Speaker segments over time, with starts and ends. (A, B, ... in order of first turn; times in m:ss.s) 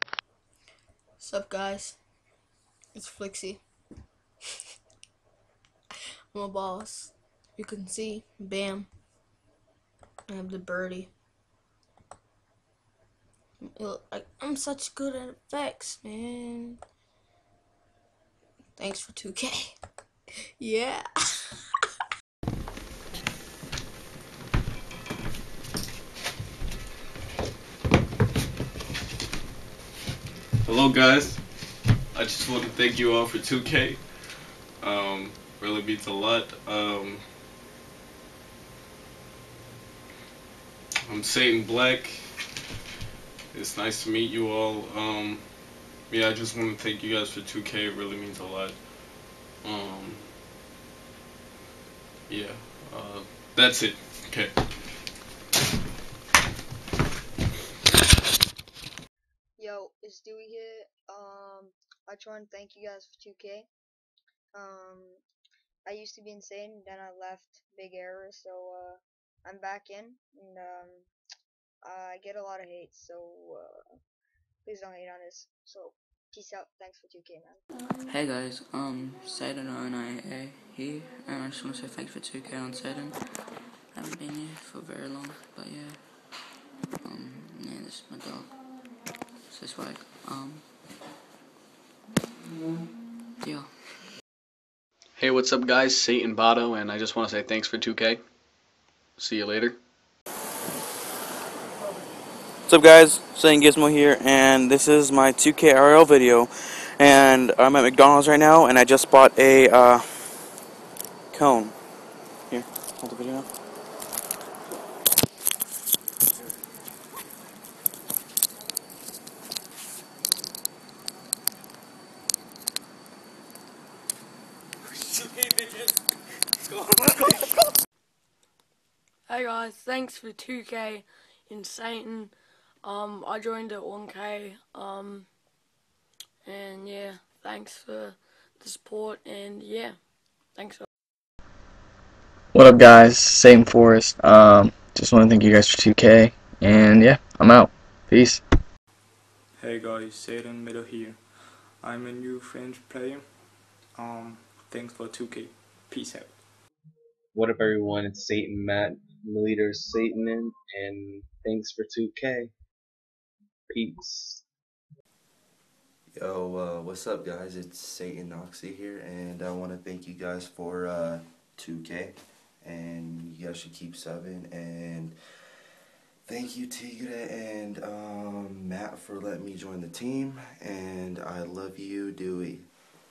0:01.2-0:02.0 A
0:02.9-0:03.6 A
0:06.3-0:08.9 A
0:10.3-0:11.1 A
0:13.6-0:16.8 A
0:18.8-0:19.7 A
0:20.6-0:21.1 A
0:30.6-0:31.4 B
0:32.1-0:34.0 B
0:34.8-0:37.2 B
0:41.0-0:42.3 B
0:43.5-0:45.5 B
0:46.1-0:48.8 B
0:49.6-0:50.3 B
0:52.3-0:54.5 B
0:59.6-1:03.7 C
1:04.5-1:05.2 C
1:05.8-1:11.1 C
1:11.8-1:14.0 C
1:14.6-1:17.6 C
1:18.0-1:23.2 D
1:23.9-1:26.4 D
1:27.0-1:28.7 D
1:29.5-1:30.6 D
1:33.4-1:33.7 D
1:35.2-1:38.2 E
1:39.2-1:39.8 E
1:42.7-1:50.0 F
1:51.3-1:51.7 F
1:52.5-1:53.5 F
2:09.3-2:15.3 G
2:16.4-2:20.8 G
2:22.5-2:28.4 H
2:29.6-2:36.4 I
2:37.3-2:42.5 J
2:43.7-2:44.4 J
2:46.1-2:55.2 K
2:56.2-3:02.7 K